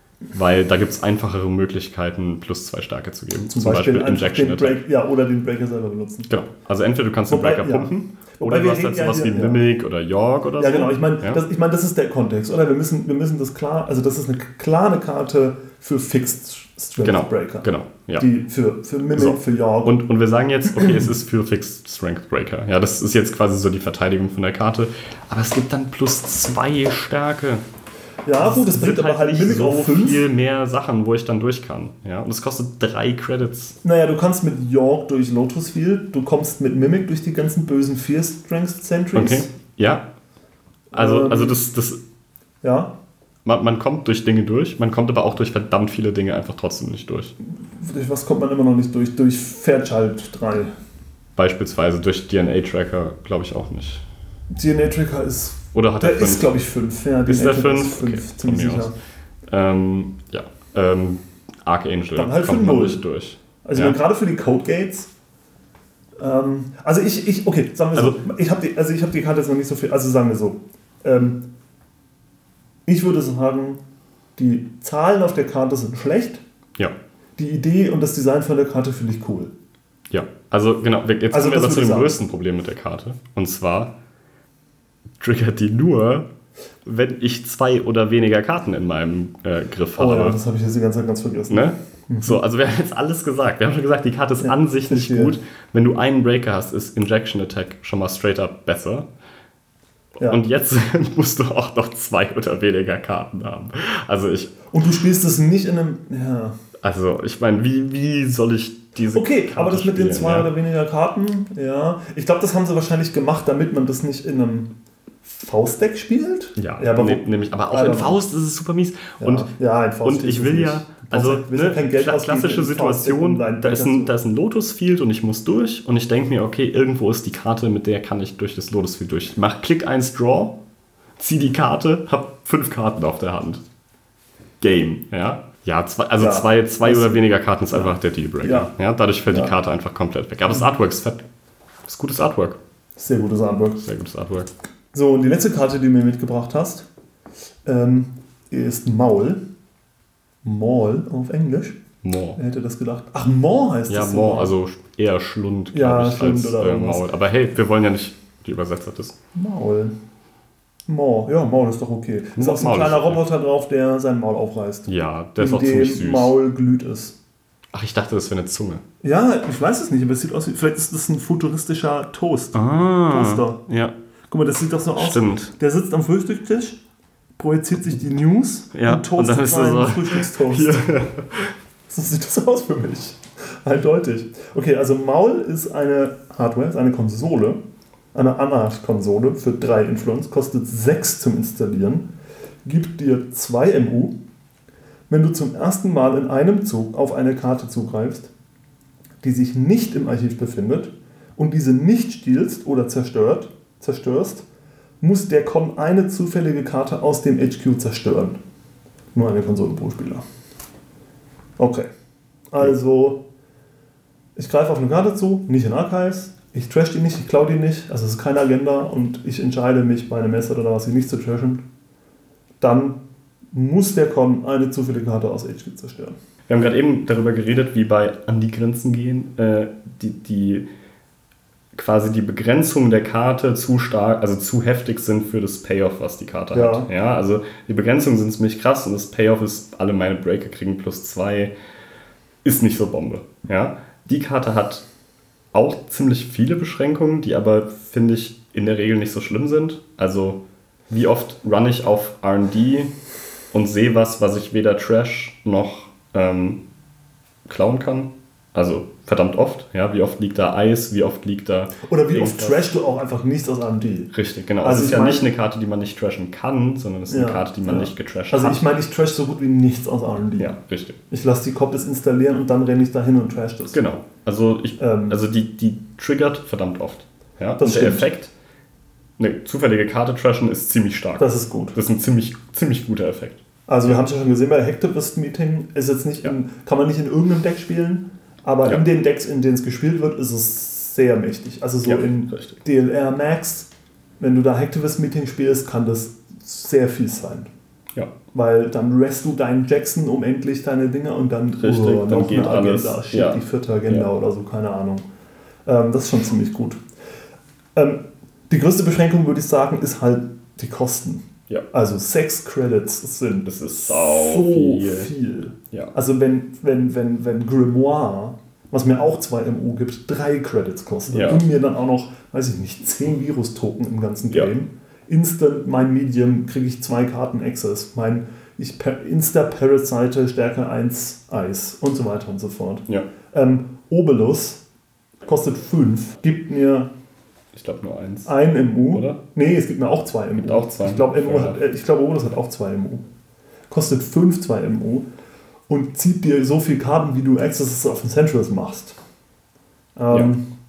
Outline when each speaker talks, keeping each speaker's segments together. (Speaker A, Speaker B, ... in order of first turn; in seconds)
Speaker A: 0.3-4.8, 6.3-11.4, 17.0-18.3, 19.1-27.6, 28.4-33.8, 39.1-40.1, 40.9-42.0, 43.4-47.3, 51.4-54.0, 55.7-56.5, 57.2-58.9, 59.5-64.0, 67.9-68.2, 80.1-83.9, 85.2-86.3, 86.8-90.4, 91.5-99.1, 100.2-104.5, 106.8-110.5, 116.5-119.5, 120.0-130.6, 131.2-133.6, 134.6-141.2, 141.8-142.6, 143.8-144.5, 152.0-152.4, 153.9-159.1, 162.3-163.2, 164.8-166.4, 167.7-168.8, 172.5-173.9, 174.9-175.5, 178.7-181.5, 226.5-230.7, 231.7-241.5, 242.4-244.8, 245.5-252.9, 253.5-256.6, 257.4-262.8, 264.1-268.6, 270.4-271.0, 273.7-278.3, 279.2-284.0, 291.8-292.6, 301.6-304.1, 313.4-315.1, 321.1-321.4, 337.5-339.2, 340.4-341.6
Speaker B: 3.5-6.3, 7.3-9.6, 10.6-20.0, 20.6-21.0, 28.2-30.2, 33.8-39.5, 40.9-41.6, 42.6-42.9, 47.6-50.7, 54.5-59.0, 62.1-63.0, 63.6-65.1, 66.2-71.4, 72.8-73.8, 74.3-76.4, 77.4-79.5, 81.3-82.2, 90.0-92.4, 94.4-95.3, 104.7-106.6, 109.1-114.7, 115.2-118.2, 119.2-124.2, 136.2-138.7, 139.2-139.5, 143.0-143.8, 144.9-146.9, 147.6-149.4, 150.4-151.8, 152.3-154.6, 155.7-157.1, 159.3-159.9, 160.9-167.2, 169.0-173.6, 174.3-176.8, 177.4-180.9, 181.9-187.6, 188.1-192.1, 192.6-194.2, 195.1-198.3, 199.2-204.4, 205.0-208.4, 209.1-210.2, 211.6-211.9, 212.5-213.2, 214.3-221.6, 222.6-223.0, 223.5-226.1, 236.5-236.9, 261.9-265.3, 267.1-270.5, 271.1-273.8, 274.8-275.2, 277.6-278.1, 281.2-281.8, 283.7-297.5, 298.3-305.0, 305.6-306.8, 307.7-334.6, 335.2-336.9, 338.2-343.0, 343.7-345.1, 345.7-349.0, 350.0-350.4